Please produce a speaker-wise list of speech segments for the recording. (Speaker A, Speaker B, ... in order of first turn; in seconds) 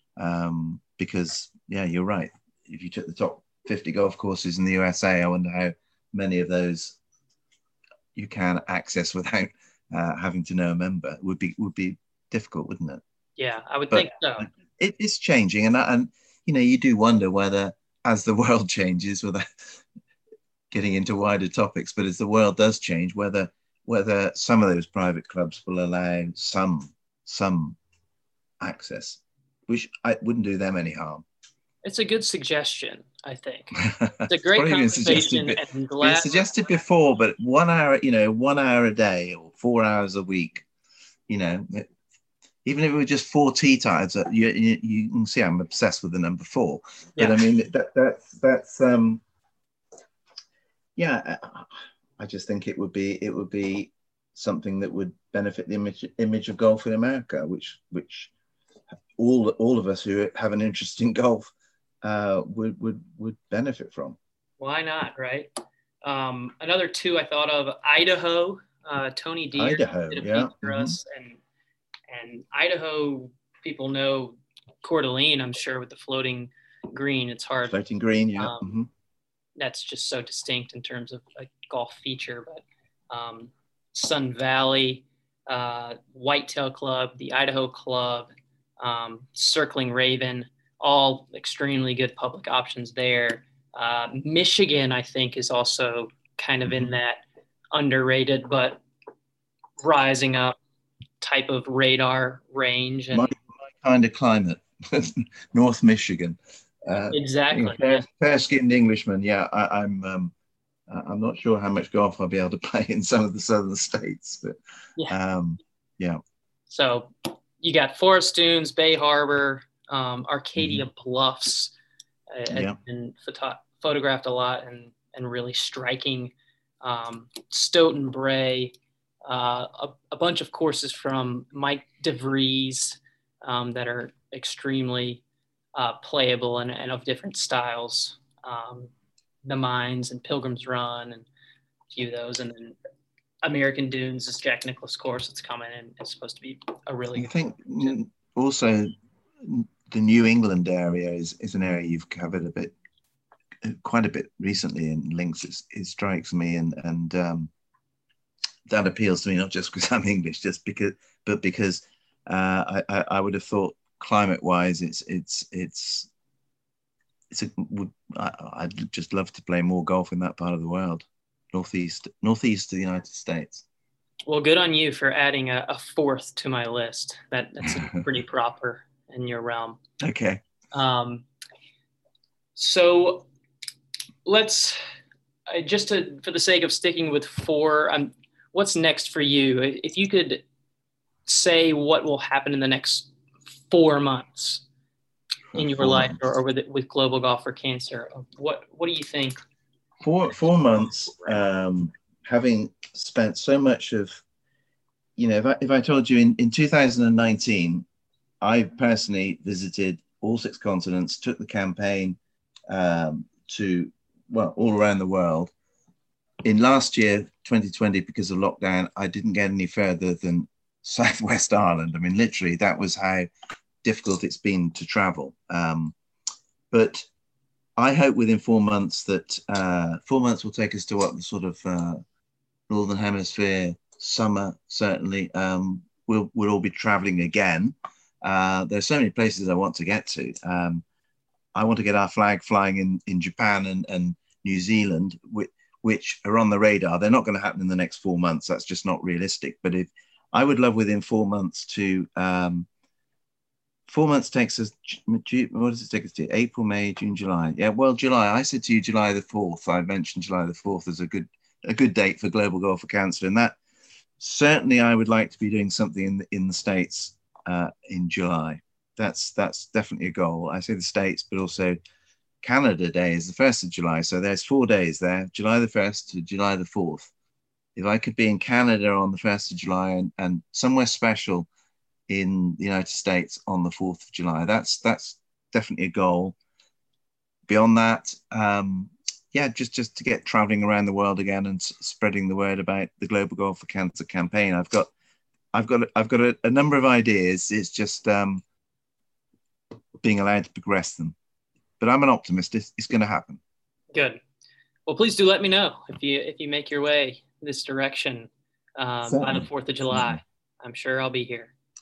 Speaker A: 0.2-7.0, 8.1-13.0, 13.9-19.8, 20.7-27.8, 28.6-31.2, 33.8-40.6, 41.3-41.9, 42.6-49.2, 51.0-58.3, 59.2-61.5, 62.0-64.2, 69.5-71.0, 77.7-78.9, 103.1-110.3, 110.9-114.5, 115.1-116.2, 120.6-120.8, 122.5-122.8, 147.2-152.7, 153.6-157.5, 158.7-166.1, 167.3-173.6, 180.0-180.4, 195.5-196.2, 200.0-204.2, 205.2-207.8, 208.4-212.2, 212.7-215.5, 216.4-223.3, 223.8-225.9, 226.7-227.1, 227.8-232.0, 232.7-240.8, 241.5-252.7, 253.9-263.6, 264.2-271.8, 272.4-277.1, 277.8-281.5, 282.1-286.4, 287.5-294.9, 295.5-298.4, 300.0-301.1, 301.8-303.4, 309.1-310.2
Speaker B: 13.4-14.5, 31.8-36.5, 47.2-47.4, 64.6-65.5, 66.0-71.4, 72.1-77.8, 78.3-78.7, 79.6-98.8, 99.8-100.6, 101.2-103.3, 107.1-108.0, 116.7-121.7, 122.3-128.7, 129.2-135.2, 135.7-138.9, 139.4-141.2, 141.9-142.8, 143.4-147.9, 174.3-179.8, 180.7-181.2, 182.6-183.3, 184.2-184.8, 185.5-190.4, 191.2-193.1, 193.7-194.6, 195.5-199.4, 303.9-304.2, 304.9-311.5